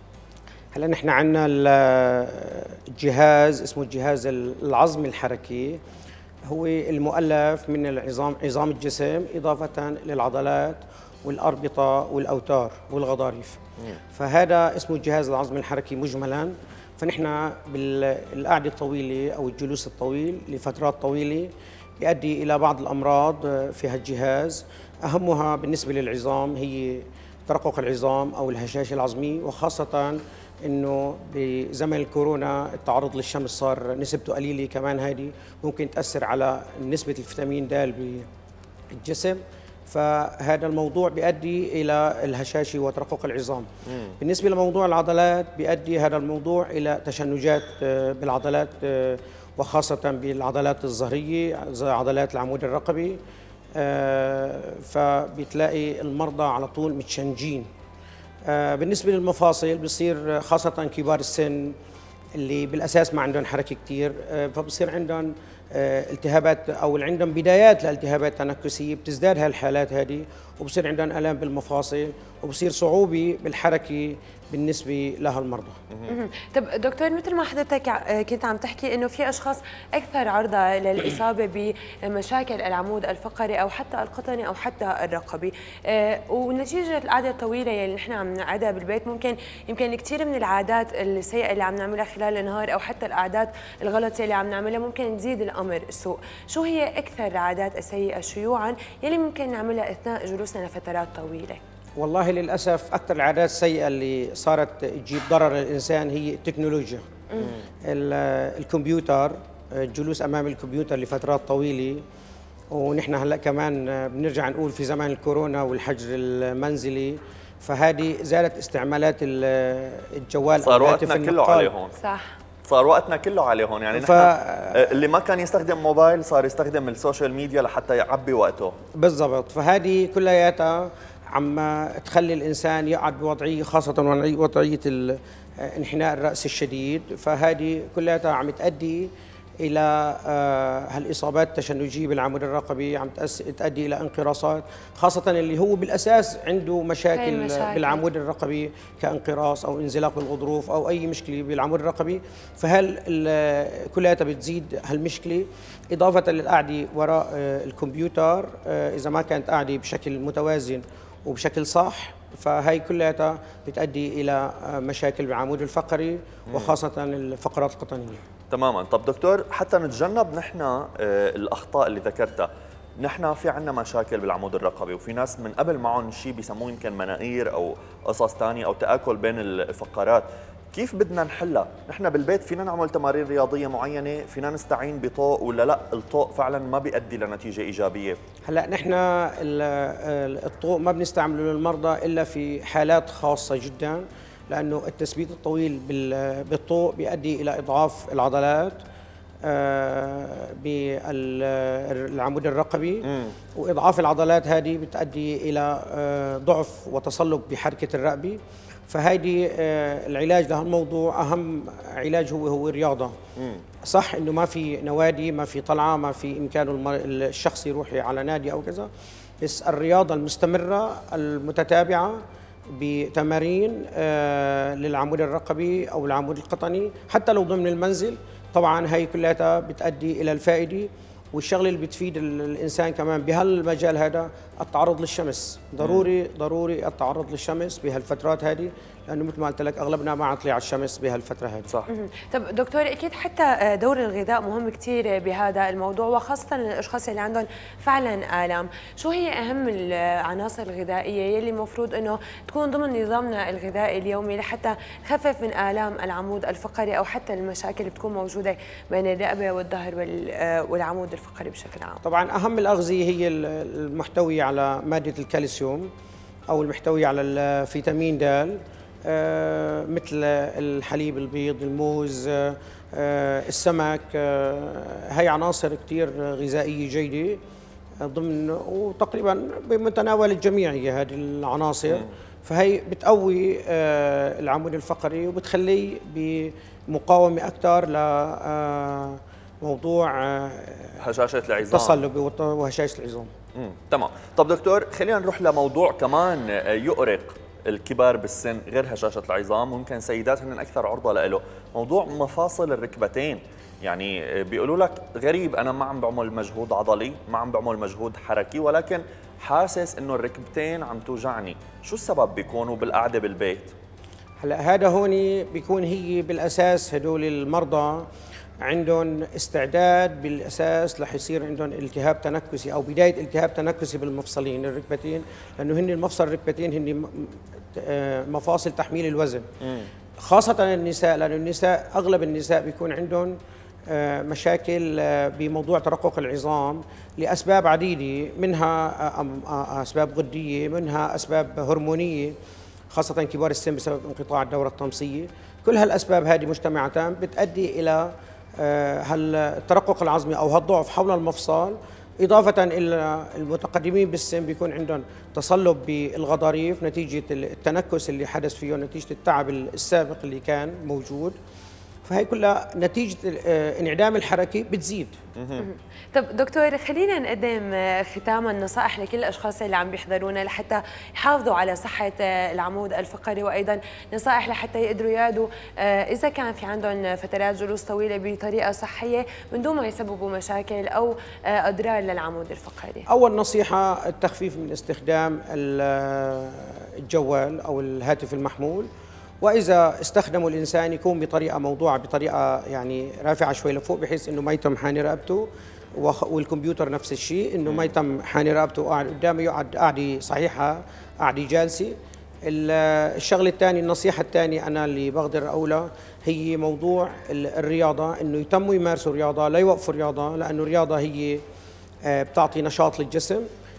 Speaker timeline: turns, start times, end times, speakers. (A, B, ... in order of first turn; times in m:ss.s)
0:00.7-0:05.8 A
0:06.5-0:13.6 A
0:14.1-0:38.3 A
0:39.0-0:43.7 A
0:43.9-0:44.2 B
0:44.2-0:53.2 A
0:53.8-0:57.7 A
0:58.5-1:01.8 A
1:02.4-1:15.8 A
1:16.1-1:41.6 C
1:42.0-1:47.0 A
1:47.9-1:52.0 A
1:52.7-2:01.7 A
2:00.6-2:02.0 B
2:02.0-2:02.3 C
2:02.7-2:08.7 B
2:03.9-2:04.8 A
2:09.0-2:48.2 A
2:27.2-2:28.0 C
2:46.5-2:46.7 B
2:48.5-2:52.5 B
2:53.0-3:08.2 B
3:08.5-3:18.8 A
3:19.4-3:33.2 A
3:23.1-3:23.3 B
3:33.4-3:33.6 B
3:33.8-3:38.9 A
3:39.4-3:42.2 A
3:42.7-4:01.7 A
3:55.8-3:56.1 B
4:01.9-4:22.0 C
4:22.0-4:25.9 A
4:26.5-4:37.4 A
4:38.0-4:51.0 A
4:51.0-4:52.0 B
4:51.6-4:53.3 A
4:53.6-5:13.7 B
5:14.4-5:18.1 A
5:18.6-5:29.5 A
5:29.6-5:29.9 B
5:30.2-5:33.4 A
5:33.9-5:42.4 A
5:42.9-6:01.4 A
6:02.1-6:05.2 A
6:05.4-6:05.7 B
6:05.6-6:23.1 C
6:23.1-6:28.9 A
6:29.4-6:41.9 A
6:37.7-6:37.9 B
6:42.4-6:51.4 A
6:52.0-6:53.5 A